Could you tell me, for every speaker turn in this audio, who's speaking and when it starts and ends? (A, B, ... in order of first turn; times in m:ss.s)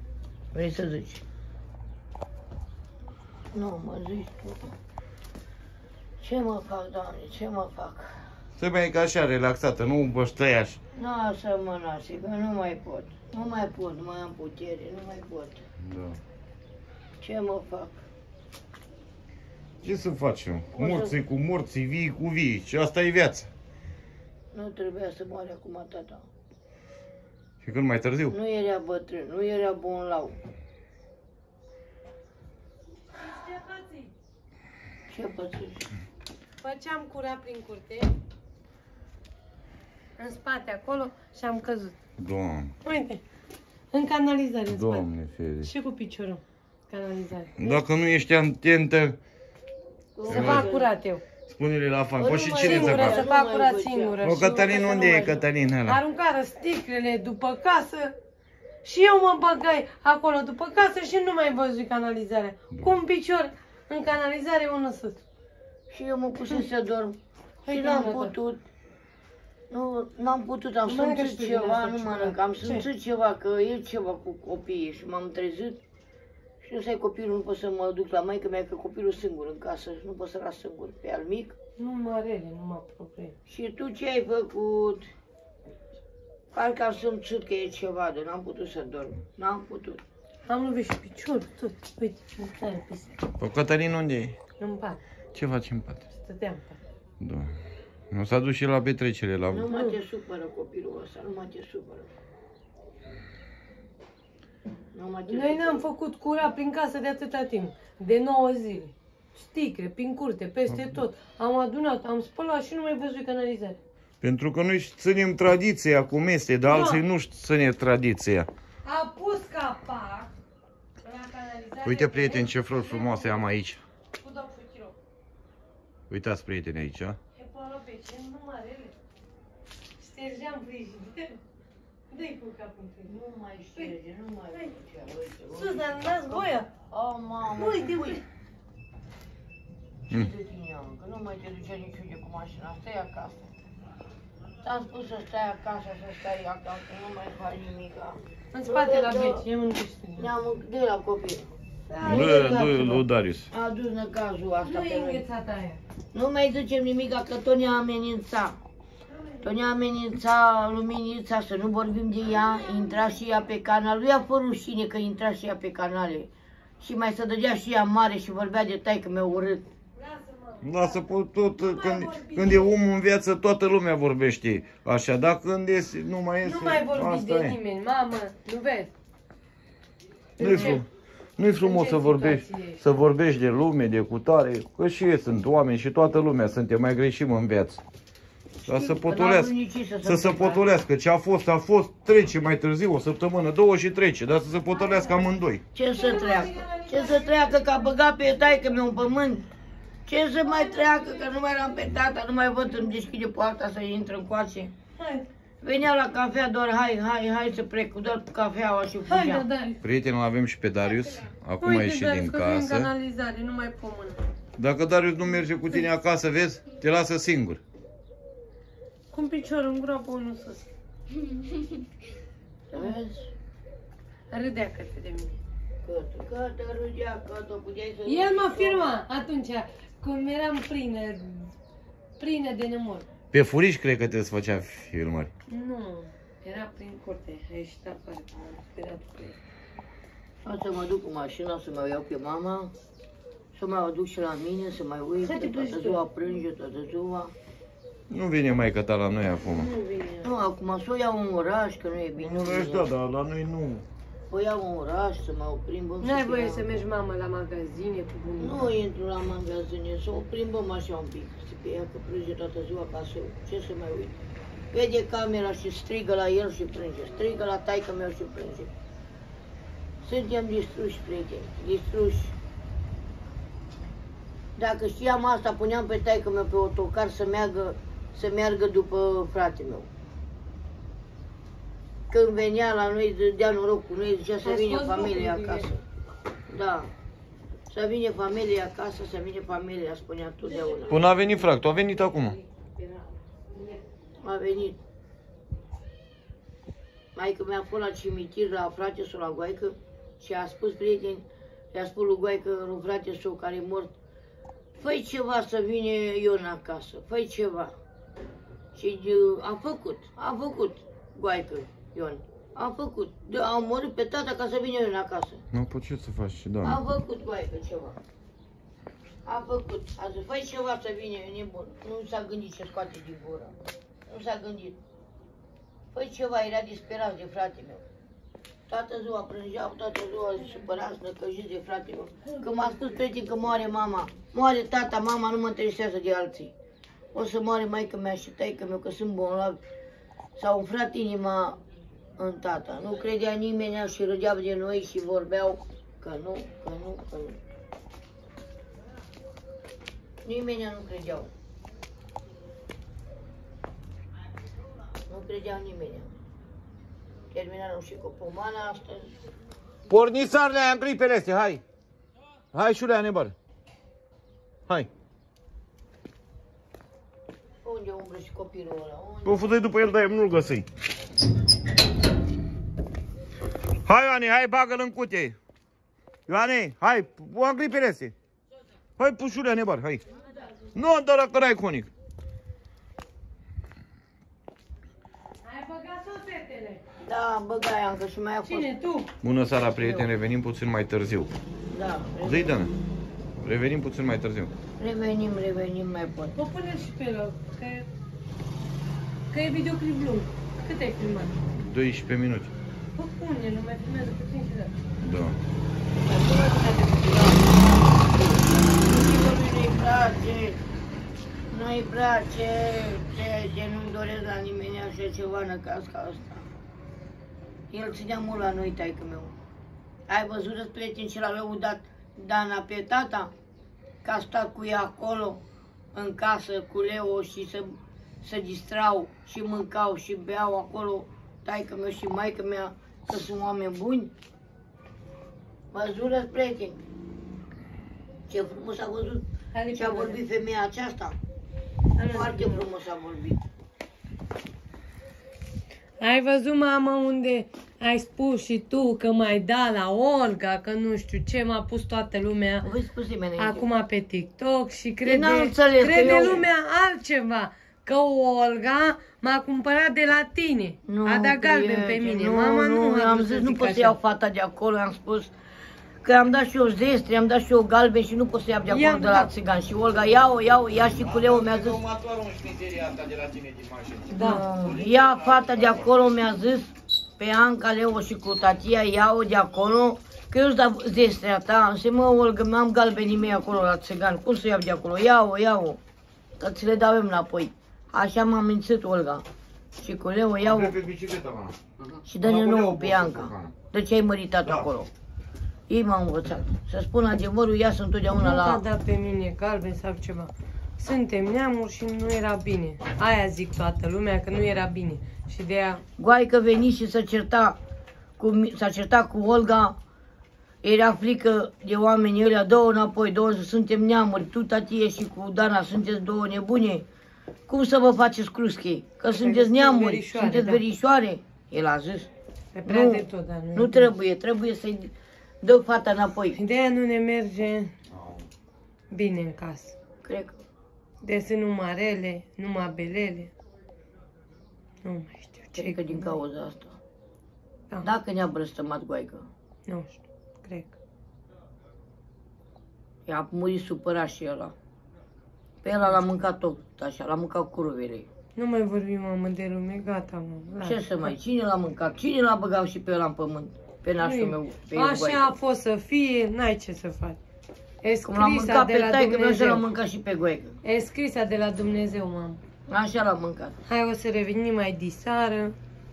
0:00.5-0:01.2 A
0:03.5-0:04.7 A
0:06.2-0:08.3 A
0:08.6-0:10.8 B
0:10.9-0:15.6 A
0:15.8-0:16.2 B
0:17.2-0:18.0 A
0:19.8-0:23.5 B
0:20.7-0:21.2 A
0:24.5-0:26.2 A
0:27.6-0:28.3 B
0:28.3-0:30.4 A
0:33.1-0:34.1 C
0:35.1-0:35.9 A
0:36.6-0:38.1 C
0:40.2-0:42.0 C
0:42.2-0:42.7 B
0:42.8-0:43.2 C
0:43.9-0:45.1 C
0:44.7-0:45.7 B
0:45.6-0:47.6 C
0:47.6-0:49.2 B
0:50.2-0:50.9 A
0:50.3-0:51.2 C
0:50.3-0:50.7 B
0:51.5-0:53.2 B
0:52.2-0:55.4 A
0:52.4-0:55.1 C
0:54.2-0:56.0 B
0:55.8-0:58.2 C
0:58.8-1:05.2 C
1:05.9-1:07.2 A
1:07.6-1:08.3 C
1:07.7-1:08.6 A
1:09.7-1:15.8 A
1:10.8-1:12.8 C
1:16.6-1:21.5 A
1:21.8-1:23.3 C
1:23.4-1:25.0 A
1:26.5-1:30.0 A
1:30.5-1:33.2 C
1:33.4-1:34.4 B
1:34.6-1:35.0 C
1:35.3-1:36.0 B
1:36.2-1:36.8 C
1:37.2-1:37.5 B
1:38.1-1:39.7 B
1:39.5-1:42.1 A
1:39.7-1:40.0 C
1:44.9-1:45.9 A
1:45.3-1:53.8 C
1:50.7-1:51.0 B
1:54.2-1:58.5 B
1:56.6-1:57.0 C
1:58.8-2:00.3 C
2:01.0-2:03.5 C
2:01.8-2:03.8 B
2:04.2-2:04.9 C
2:06.1-2:07.2 B
2:07.3-2:08.9 C
2:10.0-2:11.4 C
2:12.1-2:13.1 C
2:13.0-2:18.2 A
2:15.5-2:16.7 C
2:17.6-2:18.2 C
2:20.1-2:23.5 A
2:24.6-2:29.4 A
2:28.5-2:30.3 C
2:30.2-2:31.4 A
2:31.9-2:33.0 C
2:32.0-2:33.5 B
2:32.0-2:32.9 A
2:33.5-2:35.2 A
2:34.6-2:35.8 C
2:36.1-2:38.6 A
2:39.1-2:39.5 C
2:39.4-2:49.7 A
2:42.3-2:43.2 C
2:50.0-2:51.0 C
2:50.6-2:57.6 B
2:51.6-2:52.8 C
2:56.4-2:58.9 C
3:00.4-3:00.8 A
3:00.4-3:00.8 C
3:00.4-3:00.9 B
3:01.4-3:07.8 B
3:01.6-3:02.8 C
3:08.6-3:09.5 B
3:08.6-3:10.6 A
3:10.0-3:15.6 B
3:14.8-3:15.2 C
3:15.7-3:19.5 A
3:15.9-3:17.9 C
3:20.0-3:24.7 A
3:25.0-3:25.3 C
3:25.6-3:29.4 A
3:29.1-3:29.8 C
3:29.8-3:32.9 B
3:31.6-3:34.2 C
3:34.6-3:37.6 B
3:39.1-3:40.6 C
3:41.2-3:41.8 C
3:42.7-3:43.3 A
3:44.3-3:45.4 C
3:45.8-3:49.0 A
3:48.0-3:51.5 C
3:52.2-3:53.0 C
3:53.3-3:55.3 B
3:55.5-3:59.4 C
4:00.4-4:02.7 A
4:03.5-4:07.3 A
4:05.2-4:06.0 C
4:08.1-4:09.7 B
4:09.5-4:10.3 C
4:10.2-4:12.9 A
4:12.2-4:13.8 B
4:14.3-4:16.8 A
4:16.0-4:18.7 C
4:18.4-4:24.2 A
4:24.7-4:28.7 A
4:30.0-4:32.4 A
4:34.6-4:39.9 A
4:42.1-4:45.8 A
4:44.4-4:45.7 C
4:46.5-4:46.9 A
4:47.7-4:51.1 A
4:50.4-4:51.4 C
4:50.9-4:52.4 B
4:52.1-4:53.8 C
4:54.2-4:54.8 A
4:57.1-5:03.9 A
5:04.8-5:07.7 A
5:08.7-5:15.4 A
5:15.5-5:16.8 B
5:16.6-5:18.0 A
5:19.2-5:24.8 A
5:25.9-5:27.8 A
5:28.7-5:36.5 A
5:37.1-5:39.6 A
5:40.4-5:41.6 A
5:42.2-5:47.4 A
5:50.2-5:51.3 A
5:55.1-5:56.1 A
5:57.3-5:59.1 A
5:59.9-6:01.6 B
6:02.5-6:03.3 B
6:07.6-6:09.5 A
6:09.2-6:10.7 B
6:13.8-6:15.4 B
6:16.3-6:18.1 B
6:19.0-6:20.0 B
6:20.7-6:21.9 B
6:25.4-6:26.8 C
6:27.0-6:28.7 A
6:28.4-6:29.1 C
6:29.2-6:31.3 B
6:29.7-6:30.1 A
6:31.7-6:32.6 A
6:32.2-6:32.7 B
6:33.4-6:34.5 B
6:34.8-6:36.4 A
6:36.4-6:37.9 C
6:39.3-6:41.4 C
6:41.5-6:42.5 B
6:43.0-6:44.8 C
6:45.0-6:45.4 B
6:46.0-6:50.6 A
6:51.5-6:56.4 A
6:57.7-6:59.3 A
7:00.1-7:03.3 A
7:04.0-7:05.4 A
7:05.9-7:14.1 A
7:15.7-7:16.8 A
7:18.3-7:21.2 A
7:19.5-7:20.2 C
7:21.9-7:22.6 C
7:22.0-7:23.4 A
7:26.0-7:32.6 C
7:32.6-7:33.7 A
7:33.4-7:43.9 C
7:35.0-7:36.5 A
7:40.8-7:45.3 A
7:46.0-7:51.8 A
7:48.7-7:49.3 C
7:51.0-7:55.9 B
7:54.1-7:54.4 C
7:54.2-8:05.8 A
8:06.4-8:09.2 A
8:09.8-8:10.8 A
8:10.4-8:13.5 B
8:12.1-8:14.9 A
8:15.7-8:18.6 A
8:18.1-8:25.8 C
8:26.0-8:27.6 A
8:28.2-8:29.8 A
8:30.6-8:36.8 A
8:37.5-8:42.1 A
8:39.2-8:40.6 C
8:42.6-8:43.9 C
8:42.6-8:46.4 A
8:46.3-8:47.7 C
8:48.0-8:48.2 B
8:48.9-8:49.8 C
8:50.0-8:50.4 A
8:51.0-8:53.3 C
8:54.8-8:56.2 C
8:55.5-8:56.8 A
8:57.8-8:59.3 A
8:59.7-9:00.8 C
9:03.1-9:04.5 A
9:05.6-9:08.1 A
9:08.4-9:11.1 C
9:10.6-9:15.3 A
9:14.0-9:17.2 C
9:17.8-9:19.7 C
9:18.0-9:20.6 A
9:20.6-9:22.4 C
9:22.7-9:23.6 A
9:23.7-9:25.5 C